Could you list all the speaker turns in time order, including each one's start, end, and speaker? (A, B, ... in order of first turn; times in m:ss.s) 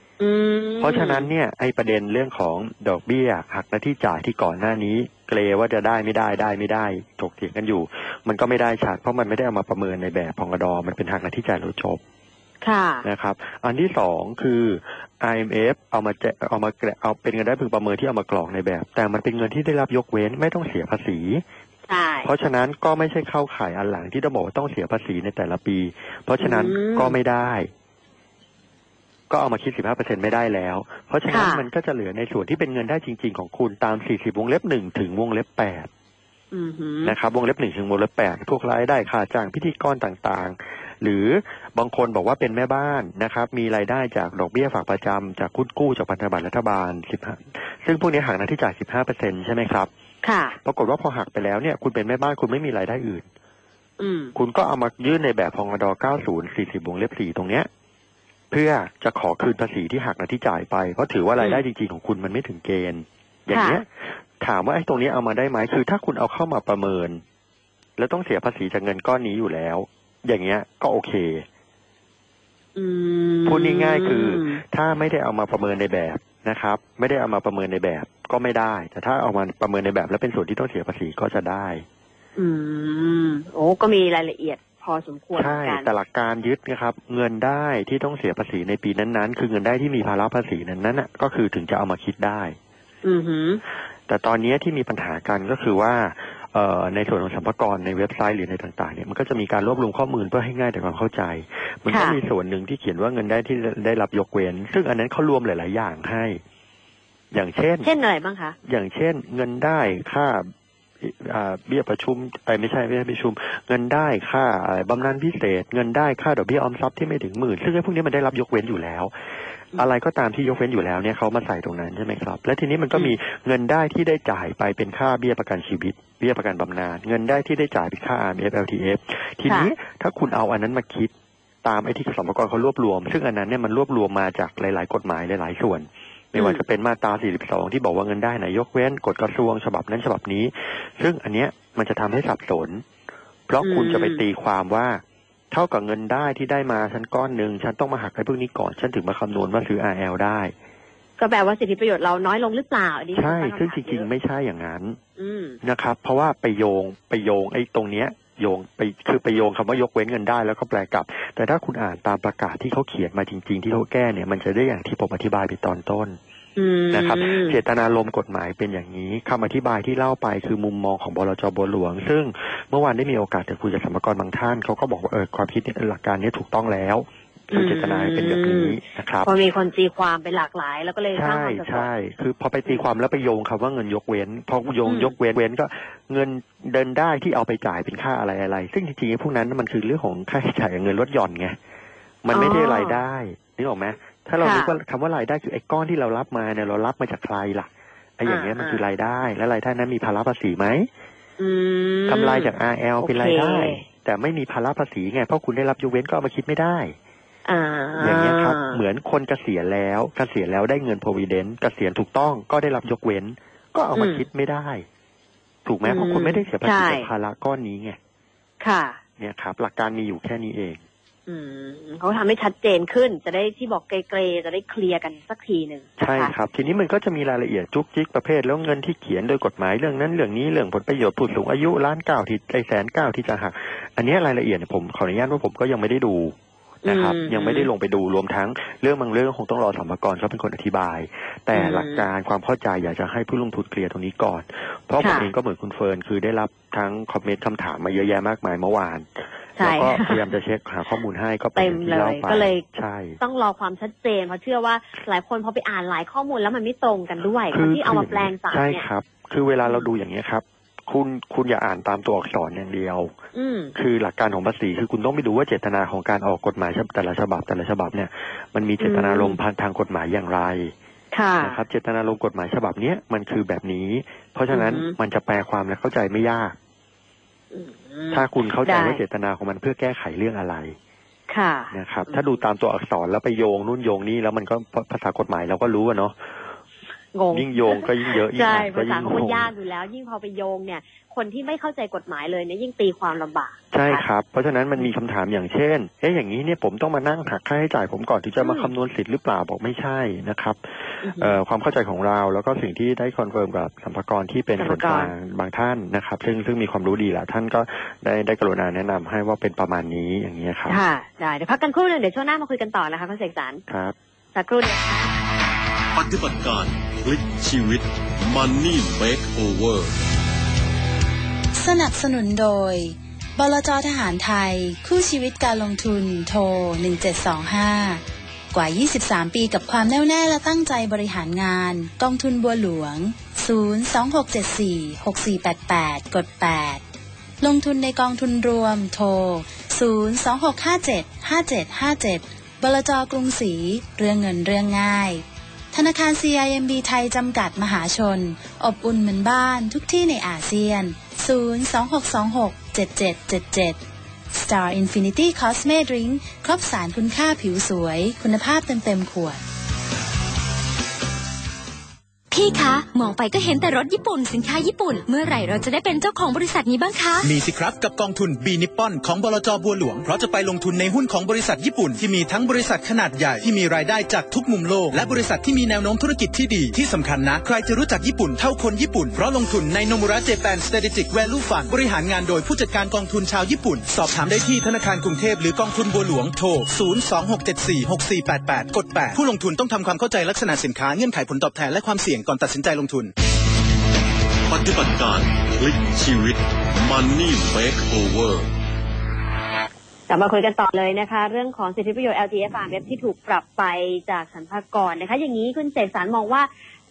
0:00.2-0:01.3 A
0:00.8-0:12.0 B
0:12.6-0:13.0 A
0:13.0-0:21.4 B
0:21.9-0:22.3 A
0:22.2-0:27.7 B
0:26.4-0:27.1 A
0:29.3-0:35.9 B
0:31.3-0:31.6 A
0:36.5-0:37.1 A
0:37.0-0:49.9 B
0:50.2-0:50.6 A
0:50.6-0:53.3 B
0:54.0-0:54.3 A
0:54.3-0:57.7 B
0:58.5-1:07.2 B
1:03.5-1:03.8 A
1:08.0-1:11.4 B
1:12.8-1:14.6 A
1:13.4-1:21.8 B
1:22.4-1:25.9 A
1:25.4-1:32.6 B
1:33.0-1:33.6 A
1:34.1-1:46.4 B
1:41.9-1:42.2 A
1:47.3-1:47.9 B
1:47.8-1:48.6 A
1:48.7-1:59.1 B
1:59.7-2:11.1 B
2:11.6-2:22.8 B
2:16.4-2:16.6 A
2:23.5-2:30.5 B
2:23.6-2:24.2 A
2:31.2-2:34.0 A
2:33.1-2:35.0 B
2:35.2-2:35.6 A
2:35.6-2:46.2 B
2:46.6-2:47.6 A
2:46.9-2:59.3 B
2:57.5-3:01.9 A
3:01.1-3:11.6 B
3:04.8-3:05.1 A
3:12.2-3:20.9 B
3:12.3-3:13.0 A
3:14.4-3:14.7 A
3:18.3-3:18.8 A
3:21.4-3:23.8 A
3:22.1-3:26.9 B
3:27.4-3:28.8 A
3:28.0-3:34.8 B
3:34.0-3:34.2 A
3:35.6-3:38.0 B
3:35.8-3:37.1 A
3:38.6-3:39.0 A
3:39.2-3:40.8 B
3:41.3-3:46.3 A
3:46.0-4:13.2 B
3:56.8-3:57.7 A
4:01.5-4:02.0 A
4:05.0-4:05.3 A
4:09.6-4:10.2 A
4:11.6-4:12.6 A
4:13.2-4:18.8 A
4:17.5-4:23.1 B
4:23.3-4:23.7 A
4:23.8-4:30.7 B
4:28.8-4:29.4 A
4:31.1-4:31.6 A
4:31.4-4:36.6 B
4:34.5-4:34.9 A
4:37.5-4:39.0 A
4:38.1-4:40.8 B
4:41.3-4:42.2 A
4:41.7-4:46.5 B
4:47.1-4:54.0 A
4:47.3-4:49.5 B
4:53.7-5:10.8 B
4:58.4-4:58.7 A
5:01.0-5:01.3 A
5:04.6-5:05.1 A
5:10.7-5:13.6 A
5:13.7-5:14.0 B
5:14.3-5:15.1 A
5:15.9-5:20.0 C
5:21.6-5:36.8 D
5:37.4-5:53.8 D
5:54.3-5:59.4 D
6:02.3-6:07.3 E
6:07.2-6:33.1 F
6:34.5-6:38.5 C
6:40.1-6:46.5 A